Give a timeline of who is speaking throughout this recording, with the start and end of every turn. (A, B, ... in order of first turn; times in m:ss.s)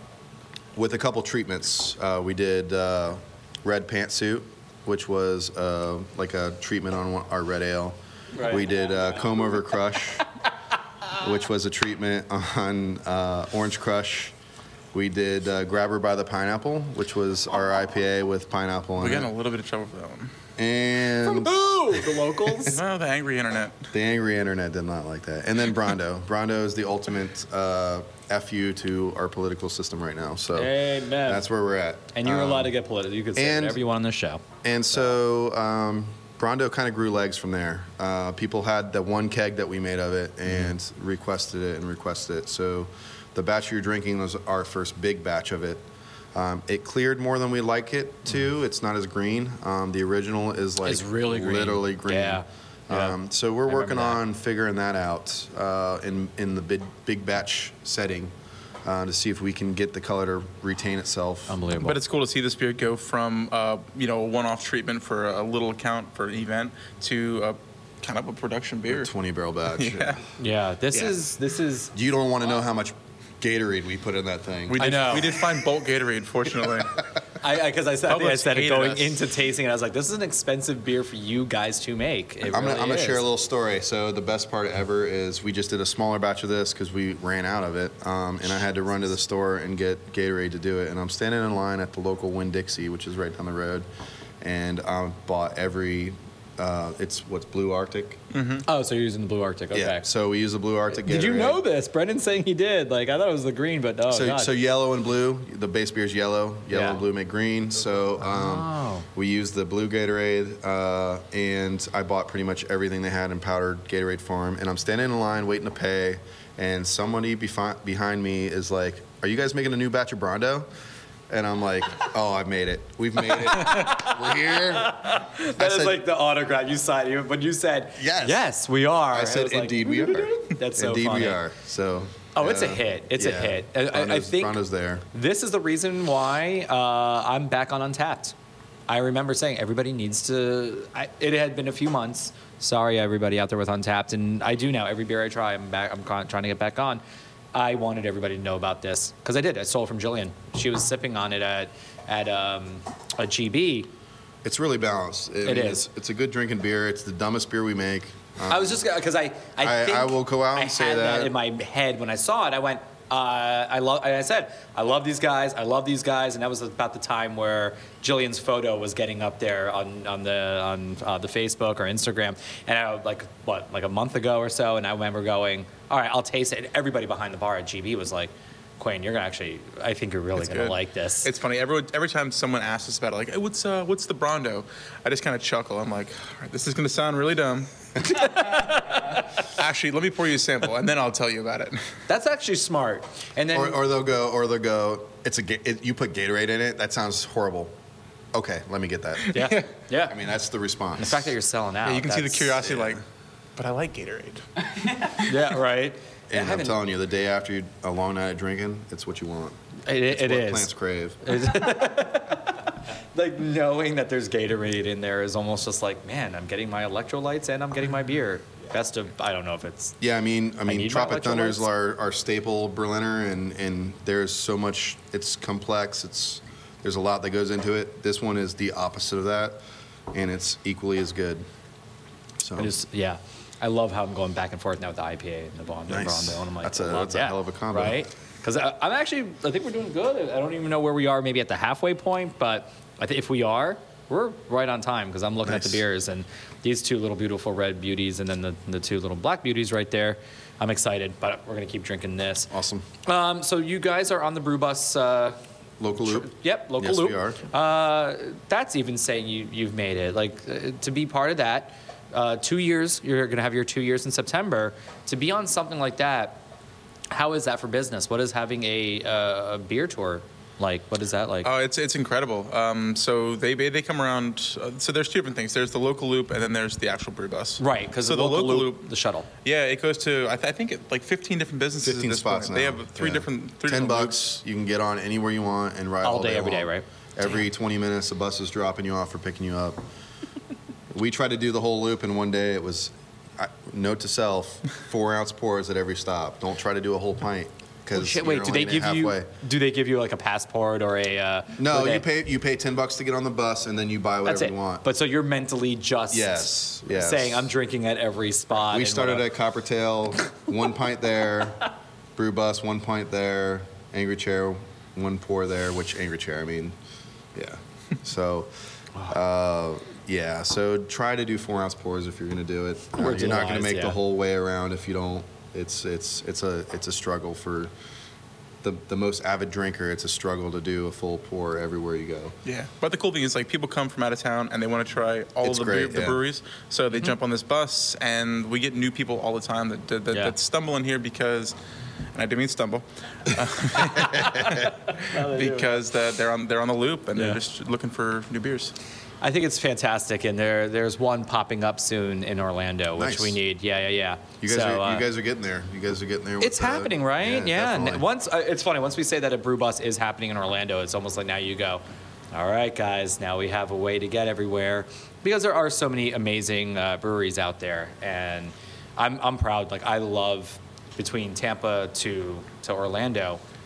0:00.8-0:10.3 A
0:08.3-0:08.9 B
0:11.1-0:14.3 A
0:14.9-0:19.3 A
0:19.0-0:20.3 C
0:20.6-0:22.7 A
0:21.2-0:22.8 B
0:22.7-0:23.9 C
0:23.9-0:32.7 A
0:30.6-0:31.5 B
0:32.1-0:34.4 B
0:33.4-0:33.8 A
0:34.6-0:58.3 A
0:50.8-0:54.2 B
0:58.8-1:01.6 A
1:01.5-1:02.0 B
1:01.8-1:09.1 C
1:08.9-1:10.3 A
1:09.8-1:10.2 C
1:10.4-1:11.9 B
1:11.9-1:15.5 A
1:14.7-1:17.0 C
1:14.8-1:15.4 B
1:17.4-1:23.3 B
1:18.1-1:19.3 C
1:22.5-1:33.9 A
1:34.4-1:38.2 A
1:38.3-1:38.6 C
1:38.7-1:40.1 B
1:39.7-1:41.6 A
1:40.9-1:44.5 B
1:44.1-2:00.7 A
1:46.7-1:47.0 B
1:48.2-1:49.1 B
2:01.3-2:06.0 A
2:03.4-2:11.4 B
2:08.0-2:08.5 A
2:09.1-2:15.1 A
2:12.4-2:14.6 B
2:15.1-2:18.3 B
2:18.9-2:27.0 B
2:27.5-2:33.9 B
2:34.4-2:38.8 A
2:35.4-2:35.9 B
2:38.5-3:01.3 B
2:39.6-2:41.3 A
3:00.4-3:08.6 C
3:08.1-3:09.2 B
3:09.4-3:11.9 C
3:12.1-3:13.8 B
3:13.5-3:17.8 A
3:18.3-3:19.5 A
3:19.3-3:19.6 C
3:19.3-3:20.2 B
3:20.1-3:21.3 A
3:21.0-3:22.6 B
3:21.8-3:23.0 C
3:22.7-3:23.0 A
3:23.6-3:24.4 C
3:25.0-3:25.2 C
3:25.1-3:26.8 B
3:26.3-3:31.5 A
3:29.8-3:30.7 B
3:31.2-3:40.0 B
3:40.0-3:51.4 A
3:40.7-3:41.7 B
3:52.4-3:52.7 A
3:52.6-4:12.5 B
3:55.9-3:58.0 A
4:05.4-4:05.8 A
4:12.5-4:12.9 A
4:13.0-4:15.4 B
4:15.8-4:17.4 A
4:16.0-4:26.4 B
4:27.1-4:31.5 B
4:31.4-4:38.9 C
4:37.6-4:39.3 B
4:39.4-4:44.2 C
4:41.8-4:49.8 A
4:46.0-4:46.9 B
4:50.9-4:59.3 A
4:57.9-5:02.0 B
5:01.6-5:04.9 A
5:04.2-5:09.3 B
5:06.1-5:07.5 A
5:08.7-5:16.8 A
5:17.3-5:18.5 A
5:19.0-5:27.7 A
5:23.0-5:24.0 B
5:28.6-5:32.4 A
5:32.4-5:41.6 C
5:35.4-5:36.2 A
5:42.1-5:48.7 C
5:44.0-5:44.4 A
5:44.5-5:45.8 B
5:49.2-5:55.1 B
5:53.0-5:53.4 A
5:54.4-5:58.1 A
5:56.4-6:13.4 B